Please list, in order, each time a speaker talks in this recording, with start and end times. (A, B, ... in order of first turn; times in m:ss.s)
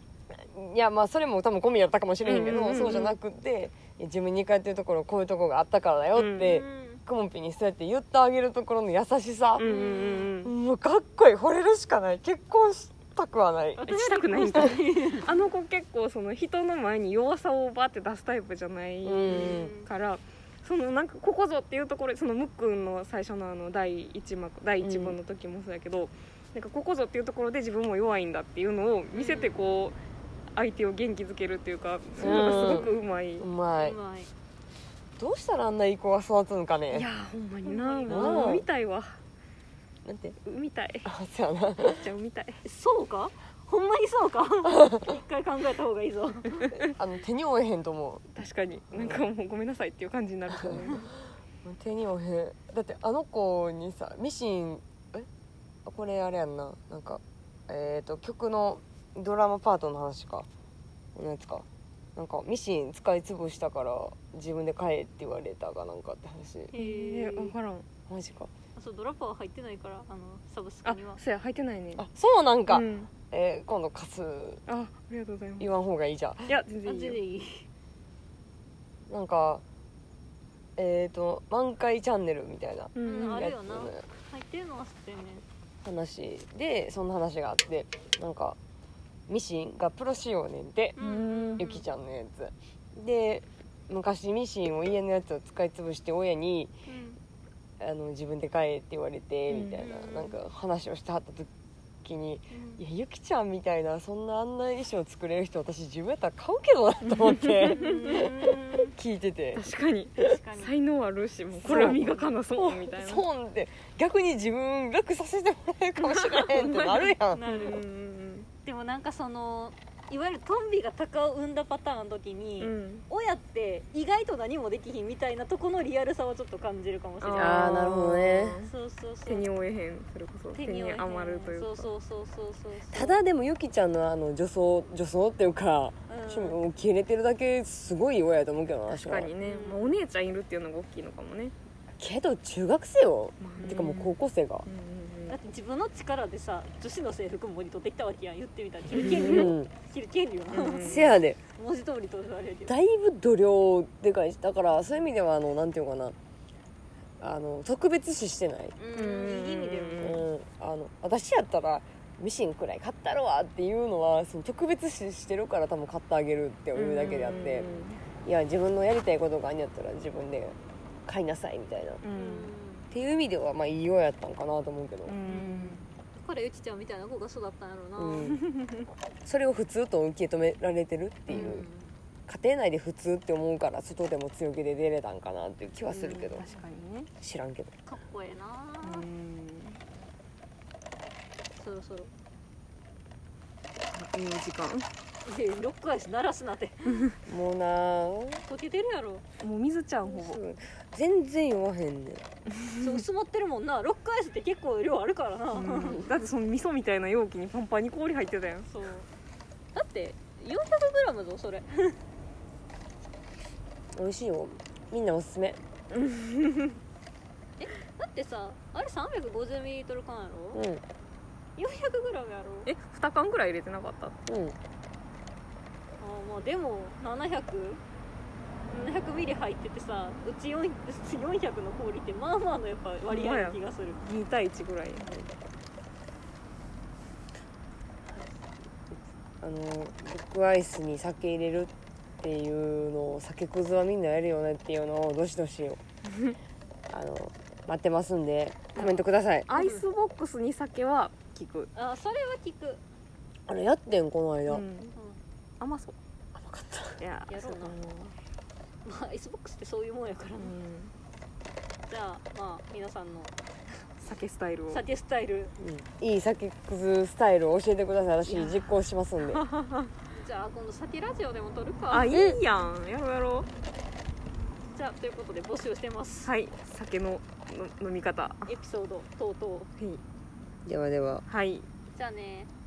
0:00.3-0:09.7 A
0:02.2-0:03.2 B
0:06.2-0:06.6 B
0:06.4-0:07.0 C
0:09.6-0:10.5 B
0:09.6-0:10.3 C
0:10.4-0:13.8 A
0:13.8-0:15.3 C
0:13.9-0:30.0 B
0:19.0-0:19.7 A
0:19.3-0:19.9 C
0:24.8-0:25.2 A
0:29.1-0:29.6 C
0:30.6-0:33.5 B
0:32.2-0:34.0 A
0:33.8-0:34.3 C
0:35.2-0:37.1 A
0:36.9-0:39.2 B
0:37.6-0:38.6 C
0:38.1-0:38.7 A
0:40.0-0:40.4 A
0:40.4-0:41.1 B
0:41.1-0:42.0 A
0:41.8-0:42.6 B
0:42.6-0:46.8 C
0:46.8-0:48.3 A
0:48.4-0:51.1 B
0:48.9-0:49.2 A
0:50.5-0:51.0 A
0:51.6-0:55.3 A
0:55.8-1:00.5 A
1:01.2-1:06.7 A
1:06.7-1:07.5 C
1:06.8-1:07.9 B
1:08.1-1:08.5 A
1:08.8-1:11.2 C
1:10.8-1:12.0 B
1:12.0-1:14.6 A
1:12.7-1:13.1 B
1:14.7-1:15.7 B
1:15.6-1:16.5 A
1:16.5-1:17.2 B
1:16.8-1:17.7 C
1:19.1-1:19.6 A
1:20.8-1:24.0 A
1:23.0-1:23.5 B
1:23.0-1:25.4 C
1:25.8-1:28.6 A
1:29.3-1:31.0 A
1:31.0-1:31.6 B
1:31.0-1:31.8 C
1:31.6-1:36.7 A
1:36.9-1:37.2 C
1:37.8-1:41.5 A
1:39.5-1:39.8 B
1:39.8-1:40.4 C
1:42.0-1:49.6 A
1:42.5-1:42.8 C
1:47.1-1:48.2 B
1:47.7-1:48.9 C
1:49.6-1:53.2 B
1:50.2-1:50.7 C
1:51.6-1:57.4 A
1:51.7-1:52.3 C
1:56.1-1:58.5 B
1:57.3-1:57.8 C
1:58.6-2:07.8 C
2:02.6-2:03.0 B
2:07.2-2:08.7 B
2:07.3-2:08.6 A
2:08.6-2:09.5 C
2:09.3-2:11.9 B
2:10.6-2:13.2 C
2:12.9-2:19.3 A
2:16.1-2:16.6 C
2:18.9-2:21.5 B
2:19.4-2:20.0 C
2:22.0-2:24.7 A
2:23.4-2:25.4 B
2:25.3-2:32.8 C
2:28.9-2:29.7 A
2:29.0-2:29.5 B
2:30.5-2:31.1 B
2:30.9-2:31.4 A
2:32.7-2:36.2 A
2:37.2-2:38.8 A
2:38.8-2:40.2 C
2:38.9-2:40.2 B
2:40.0-2:47.7 A
2:46.7-2:48.0 B
2:47.3-2:47.9 C
2:48.2-2:52.0 A
2:52.0-2:52.5 B
2:52.1-2:52.9 C
2:52.9-2:55.2 A
2:55.1-2:55.8 B
2:55.2-2:58.4 C
2:58.0-2:58.4 A
2:59.2-3:01.7 A
3:01.3-3:01.6 B
3:01.3-3:01.9 C
3:02.3-3:06.4 A
3:05.9-3:07.1 B
3:07.2-3:07.7 A
3:07.9-3:09.1 C
3:08.8-3:09.8 B
3:11.6-3:12.1 C
3:13.9-3:14.9 B
3:15.2-3:17.1 C
3:17.3-3:18.4 A
3:18.4-3:19.2 C
3:19.4-3:20.4 B
3:20.0-3:22.2 A
3:22.6-3:23.0 B
3:22.8-3:26.1 C
3:25.6-3:26.0 A
3:25.9-3:28.7 B
3:28.7-3:29.1 C
3:29.7-3:32.0 C
3:34.0-3:35.6 A
3:35.9-3:36.8 B
3:37.6-3:40.6 C
3:40.5-3:40.8 A
3:41.6-3:42.7 C
3:42.7-3:44.2 B
3:44.3-3:44.6 A
3:46.0-3:47.8 C
3:48.7-3:54.0 C
3:53.1-3:55.1 B
3:58.9-4:05.8 A
4:06.1-4:06.4 B
4:06.9-4:09.5 A
4:08.8-4:11.7 B
4:09.6-4:09.8 C
4:11.7-4:12.8 C
4:13.5-4:14.6 A
4:14.5-4:15.0 B
4:14.9-4:15.2 C
4:15.6-4:16.0 B
4:16.4-4:17.0 A
4:17.0-4:18.1 B
4:17.3-4:17.8 C
4:18.8-4:20.6 C
4:20.4-4:20.9 B
4:21.9-4:23.4 C
4:24.0-4:24.8 B
4:24.7-4:25.5 C
4:25.6-4:29.4 A
4:30.1-4:32.2 C
4:31.9-4:33.5 B
4:32.1-4:32.4 A
4:34.7-4:36.3 C
4:36.2-4:38.5 B
4:38.5-4:39.7 C
4:40.7-4:41.2 A
4:41.3-4:41.7 B
4:41.9-4:42.5 C